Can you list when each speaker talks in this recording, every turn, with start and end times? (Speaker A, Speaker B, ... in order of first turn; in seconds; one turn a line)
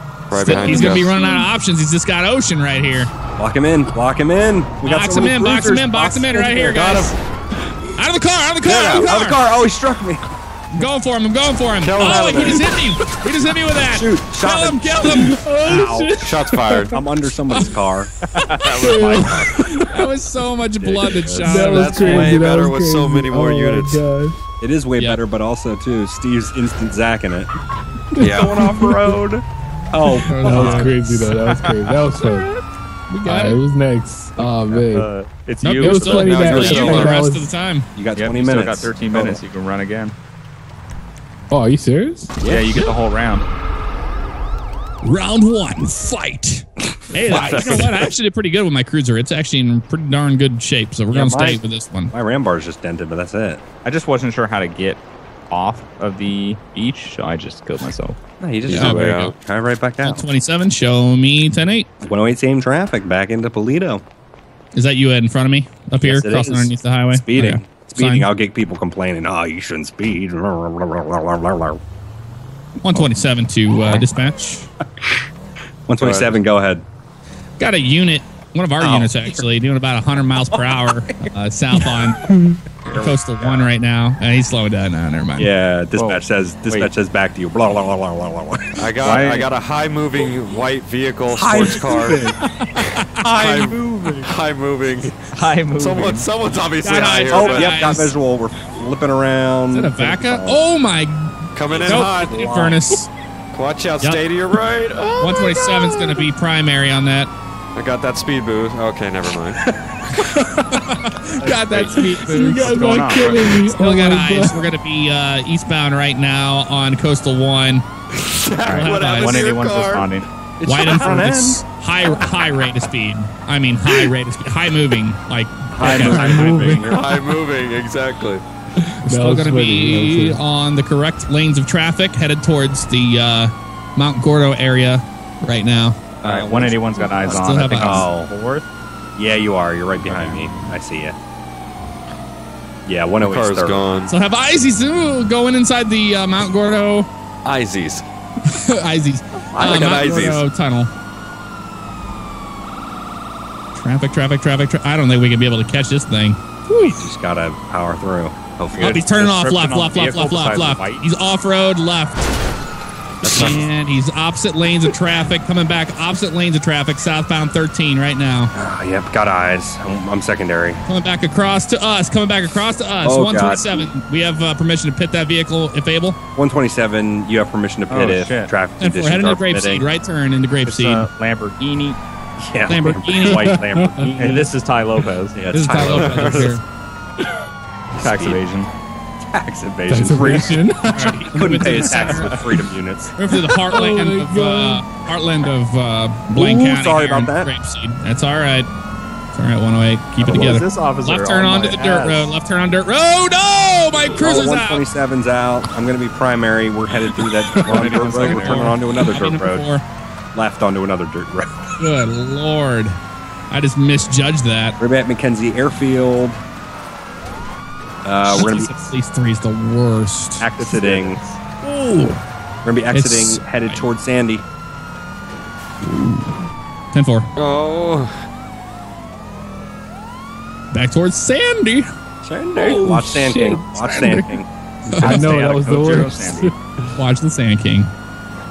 Speaker A: 0.3-1.1
Speaker B: 0.3-3.1
Speaker C: 0.6-1.5
Speaker D: 3.4-7.0
Speaker B: 4.8-7.1
Speaker A: 6.8-7.1
Speaker B: 8.0-9.4
Speaker A: 8.7-9.1
Speaker D: 8.9-10.2
Speaker B: 10.7-15.4
Speaker A: 11.8-12.7
Speaker D: 13.9-16.1
Speaker C: 15.0-16.9
Speaker A: 16.2-16.9
Speaker D: 16.9-18.1
Speaker E: 18.4-19.5
Speaker C: 18.8-20.1
Speaker B: 19.9-22.2
Speaker D: 20.8-21.6
Speaker C: 21.0-24.4
Speaker A: 21.6-24.0
Speaker D: 24.6-27.5
Speaker C: 28.1-29.1
Speaker A: 28.2-28.6
Speaker D: 28.3-30.9
Speaker B: 30.3-31.4
Speaker C: 30.4-32.5
Speaker E: 31.3-32.0
Speaker B: 33.1-33.6
Speaker C: 33.2-35.1
Speaker D: 34.4-34.8
Speaker E: 34.9-37.0
Speaker B: 35.6-37.9
Speaker C: 35.8-37.5
Speaker A: 36.2-37.1
Speaker D: 36.5-37.1
Speaker D: 37.9-39.4
Speaker E: 38.1-40.1
Speaker C: 41.5-42.4
Speaker D: 42.4-42.9
Speaker E: 42.5-43.4
Speaker B: 45.0-52.1
Speaker E: 47.2-48.1
Speaker D: 51.1-53.6
Speaker E: 53.8-58.2
Speaker D: 58.4-60.3
Speaker A: 58.7-59.3
Speaker B: 58.7-59.3
Speaker B: 60.0-61.9
Speaker D: 62.0-64.0
Speaker B: 64.7-68.3
Speaker D: 66.0-71.8
Speaker B: 72.8-74.7
Speaker E: 72.9-73.2
Speaker D: 73.8-74.0
Speaker D: 75.9-76.8
Speaker A: 76.0-76.4
Speaker B: 77.6-82.2
Speaker D: 78.8-79.4
Speaker D: 82.8-83.7
Speaker B: 82.9-85.5
Speaker D: 85.4-88.9
Speaker E: 85.9-86.9
Speaker A: 88.8-92.2
Speaker E: 89.0-89.5
Speaker D: 91.3-92.4
Speaker B: 92.6-93.2
Speaker D: 93.2-94.3
Speaker A: 93.4-97.7
Speaker E: 95.3-96.3
Speaker B: 96.8-98.1
Speaker D: 97.3-100.6
Speaker B: 99.7-103.1
Speaker A: 101.5-102.7
Speaker D: 102.3-102.7
Speaker A: 103.5-106.2
Speaker B: 105.2-107.3
Speaker A: 107.8-109.6
Speaker C: 109.5-110.9
Speaker B: 110.9-117.8
Speaker C: 111.5-114.6
Speaker E: 112.6-113.5
Speaker A: 118.1-120.1
Speaker E: 118.6-120.3
Speaker B: 118.7-119.5
Speaker D: 120.6-121.6
Speaker B: 120.6-126.8
Speaker D: 125.7-127.0
Speaker E: 125.8-126.3
Speaker C: 125.9-127.3
Speaker A: 126.8-128.4
Speaker C: 128.8-130.4
Speaker B: 129.1-135.9
Speaker D: 136.2-138.3
Speaker E: 136.2-138.7
Speaker B: 137.3-138.1
Speaker D: 139.2-141.2
Speaker E: 140.0-140.4
Speaker D: 142.8-143.8
Speaker A: 143.2-144.1
Speaker B: 144.1-147.1
Speaker A: 147.4-148.0
Speaker B: 148.5-150.9
Speaker D: 149.5-150.4
Speaker A: 149.7-150.4
Speaker B: 153.8-156.9
Speaker D: 156.8-159.4
Speaker E: 158.7-161.1
Speaker B: 158.8-162.3
Speaker D: 163.2-163.7
Speaker B: 163.2-168.5
Speaker D: 168.5-170.8
Speaker B: 170.9-176.2
Speaker D: 173.0-173.9
Speaker D: 176.3-179.9
Speaker E: 177.9-178.5
Speaker B: 178.8-181.1
Speaker E: 180.7-182.0
Speaker D: 182.4-184.3
Speaker B: 182.7-183.5
Speaker C: 183.2-184.5
Speaker E: 184.2-185.4
Speaker D: 185.3-186.5
Speaker B: 185.5-186.6
Speaker A: 185.8-186.5
Speaker D: 187.9-188.4
Speaker E: 188.0-188.7
Speaker D: 189.3-190.6
Speaker C: 189.9-191.4
Speaker B: 190.9-192.3
Speaker D: 191.3-193.1
Speaker E: 191.7-192.4
Speaker B: 193.2-198.7
Speaker C: 193.3-194.9
Speaker D: 196.3-197.5
Speaker B: 199.3-204.8
Speaker E: 200.2-202.3
Speaker D: 204.2-209.7
Speaker B: 207.6-209.8
Speaker D: 210.3-211.6
Speaker B: 211.8-212.9
Speaker B: 213.5-214.8
Speaker D: 214.8-216.4
Speaker D: 218.0-218.8
Speaker B: 218.2-220.4
Speaker E: 220.4-221.4
Speaker D: 220.6-221.2
Speaker B: 221.6-222.2
Speaker D: 222.6-224.4
Speaker B: 222.9-223.8
Speaker B: 225.8-226.3
Speaker B: 226.9-227.3
Speaker A: 227.3-228.1
Speaker B: 230.7-231.8
Speaker D: 232.2-234.5
Speaker C: 232.5-234.1
Speaker B: 233.8-234.3
Speaker C: 234.9-236.5
Speaker B: 234.9-235.2
Speaker E: 235.0-236.5
Speaker B: 236.9-237.9